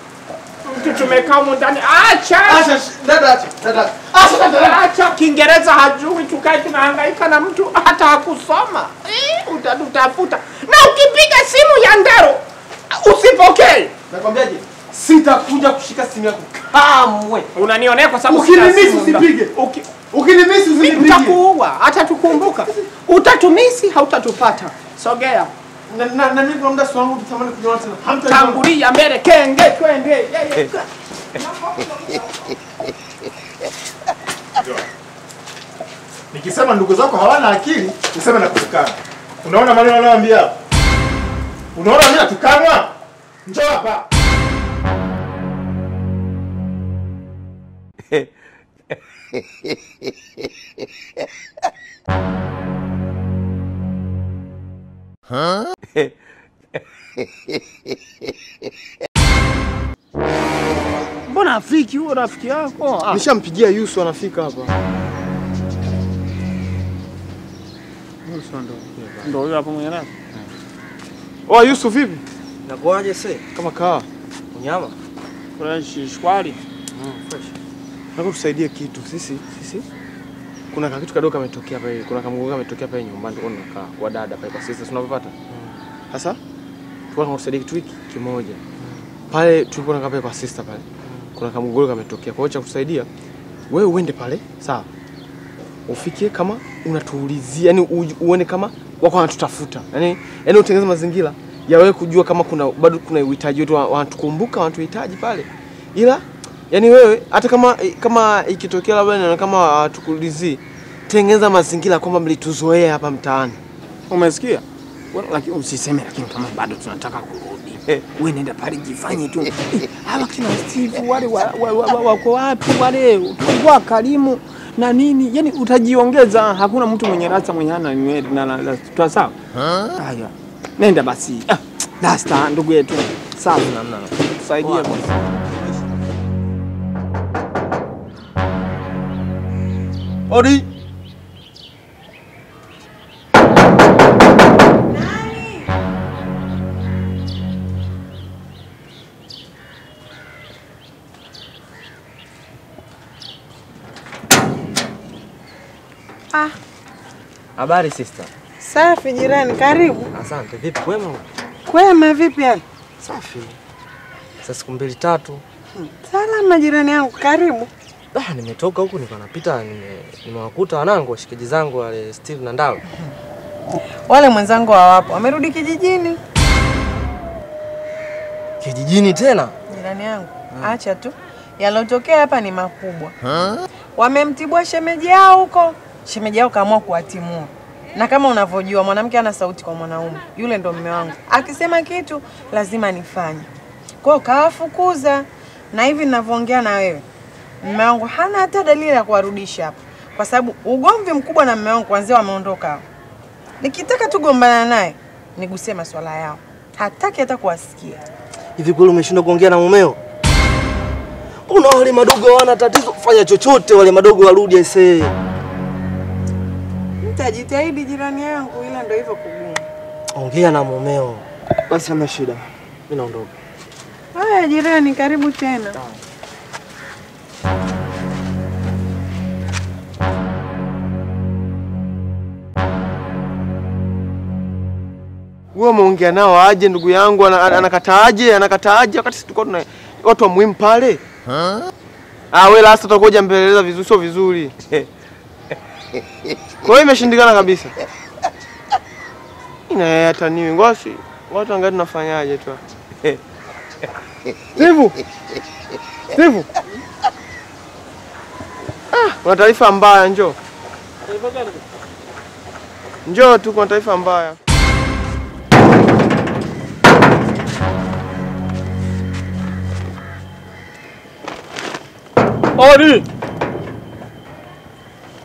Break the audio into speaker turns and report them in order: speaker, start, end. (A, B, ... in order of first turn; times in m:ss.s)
0:00.6-0:02.7 A
0:00.8-0:01.2 B
0:02.4-0:04.8 B
0:04.3-0:13.9 A
0:14.1-0:17.5 B
0:17.5-0:19.9 A
0:18.3-0:19.5 B
0:20.1-0:21.4 B
0:20.8-0:25.5 A
0:25.9-0:28.6 B
0:28.2-0:32.5 A
0:34.6-0:34.8 C
0:36.3-0:40.6 C
0:41.7-0:42.9 C
0:43.5-0:44.1 C
1:01.3-1:03.2 A
1:03.1-1:04.8 B
1:08.2-1:10.1 A
1:11.5-1:12.2 B
1:12.7-1:13.4 D
1:13.6-1:14.1 B
1:14.5-1:15.0 D
1:15.6-1:16.6 A
1:16.9-1:17.5 D
1:18.2-1:19.8 B
1:20.7-1:25.3 B
1:25.5-1:25.8 D
1:26.1-1:26.4 B
1:27.1-1:28.6 B
1:28.8-1:29.0 D
1:29.3-1:33.1 B
1:31.0-1:31.3 D
1:33.7-1:34.9 B
1:35.9-1:53.6 B
1:54.1-2:09.4 A
2:10.0-2:13.6 A
2:13.4-2:14.2 D
2:14.4-2:15.1 A
2:20.3-2:20.7 B
2:24.9-2:25.7 E
2:37.6-2:38.3 D
2:38.6-2:40.1 E
2:40.1-2:41.2 D
2:41.7-2:42.6 E
2:43.0-2:43.6 D
2:44.4-2:45.4 D
2:45.8-2:47.7 E
2:48.1-2:52.8 D
2:54.1-2:56.2 E
2:58.6-2:59.6 D
2:59.7-3:03.2 E
3:04.0-3:13.5 E
3:14.0-3:17.0 E
3:17.6-3:22.8 E
3:23.6-3:28.0 E
3:28.6-3:30.0 D
3:31.5-3:35.2 D
3:37.0-3:39.7 E
3:40.1-3:43.3 D
3:44.1-3:45.8 E
3:55.5-4:01.0 B
4:02.3-4:04.8 B
4:06.6-4:07.8 B
4:09.7-4:13.2 B
4:14.6-4:15.0 B
4:16.1-4:16.5 B
4:18.9-4:20.4 B
4:23.1-4:24.4 B
4:32.6-4:33.0 A